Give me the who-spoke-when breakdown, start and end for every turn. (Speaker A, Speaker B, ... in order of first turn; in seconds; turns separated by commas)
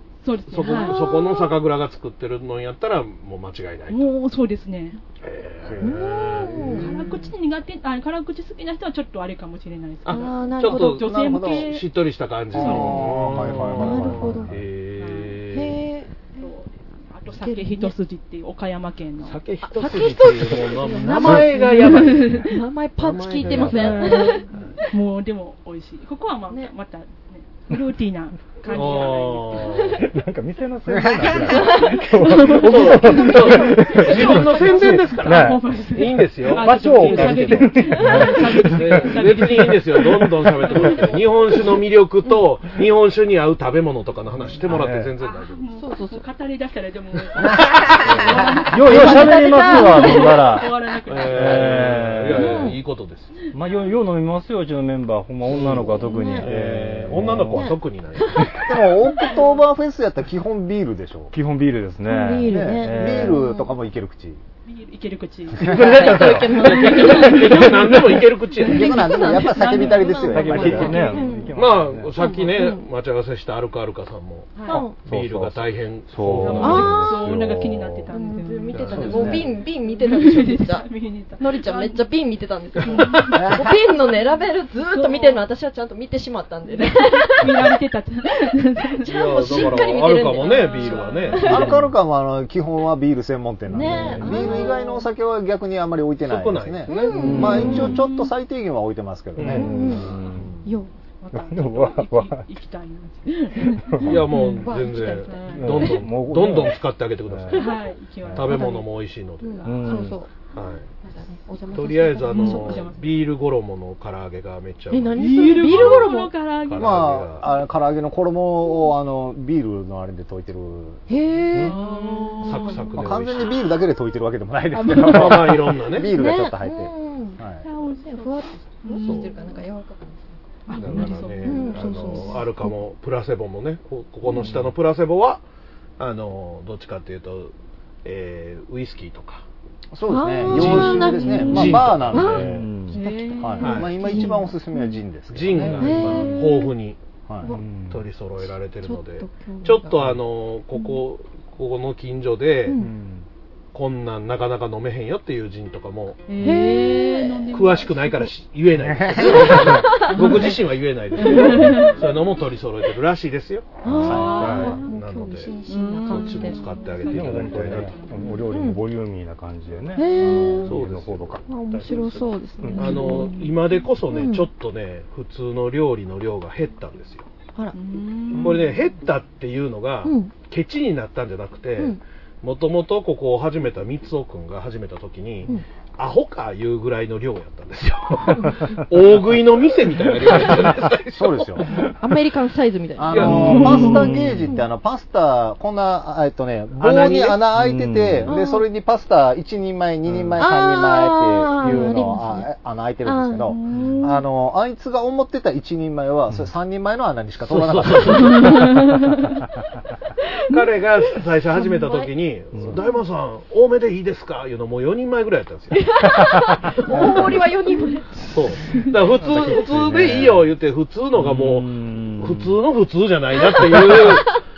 Speaker A: 0.2-1.4, Speaker B: 0.5-4.1, Speaker C: 0.6-1.4, Speaker A: 3.9-5.0, Speaker B: 5.2-6.9, Speaker D: 5.6-7.1, Speaker C: 5.8-6.9, Speaker A: 6.8-11.8, Speaker B: 10.0-15.8, Speaker C: 10.1-11.0, Speaker D: 10.7-11.7, Speaker D: 12.5-14.6, Speaker A: 12.6-14.0, Speaker C: 12.6-13.0, Speaker C: 13.7-14.5, Speaker A: 15.0-15.4, Speaker C: 15.5-16.2, Speaker A: 16.3-19.4, Speaker C: 17.3-17.9, Speaker B: 19.2-22.4, Speaker C: 19.6-24.5, Speaker A: 21.8-22.6, Speaker B: 23.0-24.8, Speaker E: 23.6-23.9, Speaker A: 23.8-29.9, Speaker B: 28.7-30.0, Speaker E: 30.1-35.7, Speaker D: 30.9-31.5, Speaker C: 31.5-31.9, Speaker A: 32.2-41.8, Speaker B: 32.5-38.2, Speaker E: 36.5-40.8, Speaker B: 38.7-45.6, Speaker E: 44.7-45.0, Speaker D: 44.7-45.1, Speaker A: 45.2-51.9, Speaker C: 45.7-46.2, Speaker B: 48.1-48.4, Speaker E: 48.7-50.8, Speaker C: 48.9-50.3, Speaker B: 51.1-53.3, Speaker E: 51.3-52.7, Speaker C: 52.3-52.8, Speaker E: 53.5-57.8, Speaker B: 55.5-58.9, Speaker C: 56.0-56.5, Speaker D: 58.7-61.3, Speaker E: 61.3-63.4, Speaker C: 62.0-63.7, Speaker D: 62.5-64.4, Speaker A: 64.6-66.0, Speaker D: 65.6-66.1, Speaker E: 65.7-66.6, Speaker C: 65.7-71.5, Speaker B: 66.3-68.9, Speaker A: 66.6-67.9, Speaker D: 68.6-71.0, Speaker A: 68.8-71.3, Speaker E: 70.2-72.1, Speaker B: 71.5-76.9, Speaker C: 72.2-72.8, Speaker A: 74.5-74.8, Speaker C: 74.7-74.9, Speaker E: 74.9-78.1, Speaker A: 76.4-82.0, Speaker C: 76.6-77.1, Speaker C: 78.1-87.7, Speaker E: 78.7-79.4, Speaker D: 78.8-79.5, Speaker A: 82.8-83.6, Speaker D: 83.3-83.8, Speaker A: 84.8-85.5, Speaker A: 86.7-91.7, Speaker C: 88.9-91.7, Speaker B: 89.1-91.7, Speaker E: 91.4-91.9, Speaker D: 91.4-99.8, Speaker C: 93.7-95.0, Speaker E: 93.8-94.4, Speaker A: 94.3-94.7, Speaker B: 96.2-97.6, Speaker C: 96.9-97.9, Speaker E: 97.1-98.0, Speaker A: 97.3-98.3, Speaker B: 99.3-100.2, Speaker E: 99.4-100.5, Speaker C: 99.5-100.1, Speaker C: 100.6-100.9, Speaker A: 101.2-105.9, Speaker E: 101.3-102.5, Speaker E: 103.9-104.2, Speaker B: 104.0-107.7, Speaker C: 104.3-105.8, Speaker E: 105.5-107.6, Speaker A: 107.5-108.8, Speaker B: 108.3-110.0, Speaker C: 108.4-108.8, Speaker C: 109.4-110.3, Speaker A: 109.6-109.9, Speaker E: 109.6-110.2, Speaker B: 110.5-110.9, Speaker C: 111.0-112.9, Speaker B: 111.7-116.0, Speaker A: 112.3-113.2, Speaker C: 114.9-116.3, Speaker A: 115.2-117.1, Speaker B: 116.7-117.4, Speaker D: 116.8-121.7, Speaker C: 121.1-122.9, Speaker A: 121.5-123.1, Speaker B: 122.4-123.6, Speaker D: 123.0-127.7, Speaker A: 124.7-125.6, Speaker B: 125.0-126.1, Speaker C: 126.0-132.8, Speaker A: 127.6-129.6, Speaker B: 129.0-129.3, Speaker A: 130.7-132.5, Speaker B: 130.7-135.4, Speaker E: 134.3-134.7, Speaker B: 136.0-137.5, Speaker B: 138.0-139.4, Speaker D: 139.9-146.2, Speaker C: 140.1-145.0, Speaker B: 140.5-142.3, Speaker E: 141.7-143.0, Speaker A: 142.9-144.3, Speaker B: 143.6-143.9, Speaker B: 145.3-147.0, Speaker C: 145.6-146.7, Speaker E: 145.7-146.3, Speaker D: 147.3-147.5, Speaker E: 147.5-148.0, Speaker B: 147.9-152.8, Speaker C: 148.8-150.2, Speaker C: 150.7-151.0, Speaker C: 152.7-152.9, Speaker E: 152.8-153.2, Speaker B: 153.7-156.2, Speaker A: 156.3-158.3, Speaker C: 156.4-157.5, Speaker B: 157.5-165.5, Speaker D: 158.7-159.8, Speaker A: 159.2-160.6, Speaker C: 159.2-160.5, Speaker A: 161.2-162.1, Speaker C: 161.2-161.8, Speaker C: 163.8-166.7, Speaker E: 163.9-164.7, Speaker D: 163.9-164.6, Speaker A: 164.1-164.9, Speaker A: 165.6-168.5, Speaker B: 166.0-167.9, Speaker E: 167.1-173.3, Speaker C: 168.4-168.8, Speaker C: 169.9-170.7, Speaker D: 170.3-170.7, Speaker B: 170.7-171.4, Speaker C: 171.5-174.5, Speaker A: 172.8-173.2, Speaker B: 172.8-177.3, Speaker A: 177.7-178.8, Speaker C: 178.3-178.6, Speaker B: 178.3-191.6, Speaker C: 180.0-180.3, Speaker C: 188.3-188.8, Speaker D: 191.2-191.6, Speaker C: 191.9-194.7, Speaker D: 193.0-208.5, Speaker B: 193.1-193.6, Speaker E: 193.2-194.5, Speaker B: 196.8-197.4, Speaker E: 197.5-198.3, Speaker C: 198.3-198.7, Speaker C: 200.4-202.5, Speaker C: 203.0-203.9, Speaker A: 203.6-204.2, Speaker B: 207.5-208.6, Speaker A: 208.1-209.3, Speaker B: 210.5-215.8, Speaker C: 211.6-212.1, Speaker C: 215.7-218.3, Speaker E: 216.0-217.1, Speaker A: 216.9-217.4, Speaker B: 218.3-224.4, Speaker E: 219.1-220.5, Speaker E: 221.1-222.6, Speaker E: 223.7-224.1